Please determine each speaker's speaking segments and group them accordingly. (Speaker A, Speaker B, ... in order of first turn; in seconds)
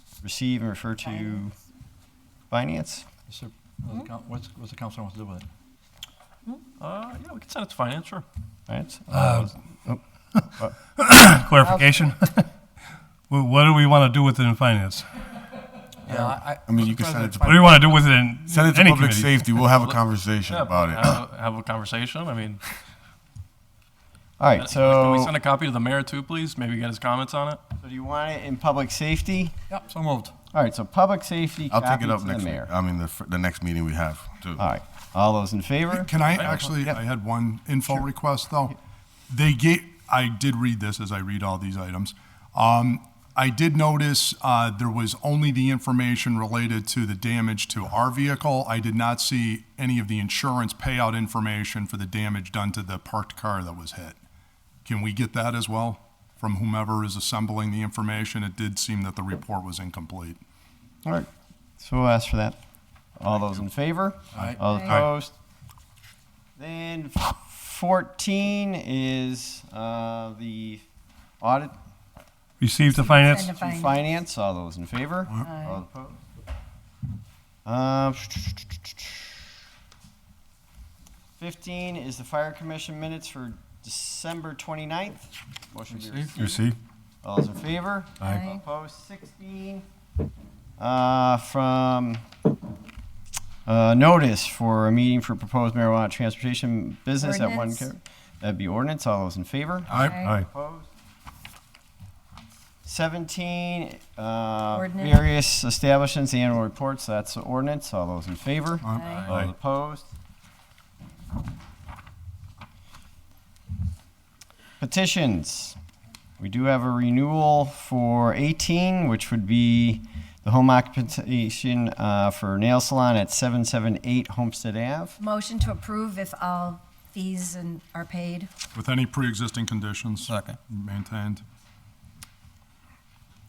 Speaker A: 0.2-1.6, 2.5-3.0, 8.7-10.0, 24.4-25.3, 27.8-29.5, 30.5-32.7, 34.6-36.9, 61.8-62.6, 63.2-65.3, 66.6-70.8, 71.4-71.7, 73.4-76.2, 77.6-79.2, 81.4-86.6, 87.2-89.8, 90.8-92.2, 93.7-100.9, 102.8-110.1, 114.8-115.8, 116.4-125.2
Speaker B: 3.3-5.5, 16.0-17.8, 29.7-30.3, 64.3-64.6, 85.9-86.3
Speaker C: 6.8-8.2, 19.8-22.6, 24.6-27.6, 130.3-130.6
Speaker D: 10.3-12.5, 13.3-15.1, 17.5-19.6, 72.6-73.8
Speaker E: 16.1-17.8, 18.4-21.1, 31.7-34.6, 86.4-86.8
Speaker F: 35.9-38.8, 39.3-54.2, 54.8-60.4, 99.9-100.2, 128.7-131.4
Speaker G: 64.7-65.0, 73.1-73.9, 75.4-75.8, 97.2-97.9, 100.0-100.3, 104.7-105.1, 108.9-109.3, 125.2-128.5